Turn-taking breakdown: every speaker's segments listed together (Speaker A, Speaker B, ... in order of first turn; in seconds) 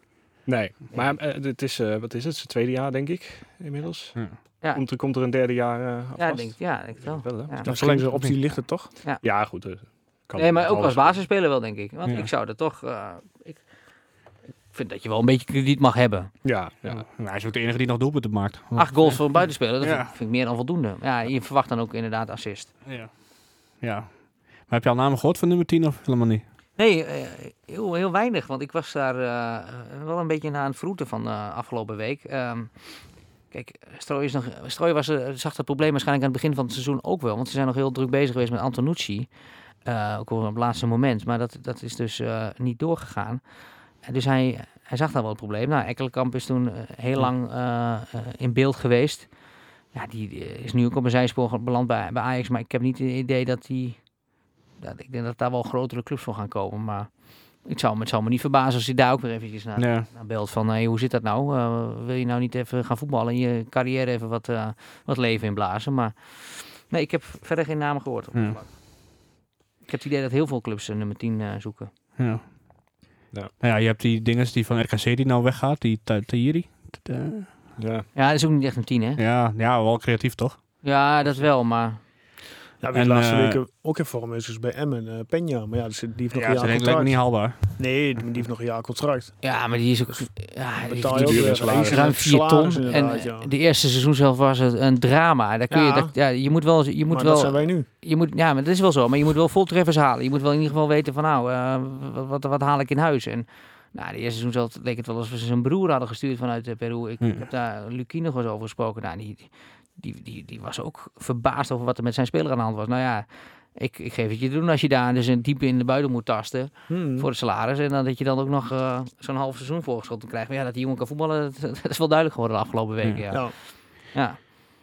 Speaker A: 0.5-7.6, 9.2-11.2, 16.4-17.0, 77.8-78.0, 91.0-92.2
Speaker B: 6.2-7.7, 10.3-13.6, 14.7-16.3, 18.7-22.7, 26.8-39.3, 39.8-43.4, 44.0-49.4, 49.9-54.1, 54.8-68.8, 69.8-71.9, 78.1-79.2, 80.8-82.0, 89.4-124.4
Speaker C: 7.6-8.9, 82.8-89.4, 90.8-93.5, 95.7-96.2, 97.1-97.9, 116.9-117.3
Speaker D: 7.7-8.6, 16.9-20.1, 22.9-26.4, 59.8-60.1, 68.3-68.6, 72.2-72.6, 73.6-77.6, 79.2-80.7, 82.9-83.6, 86.4-87.9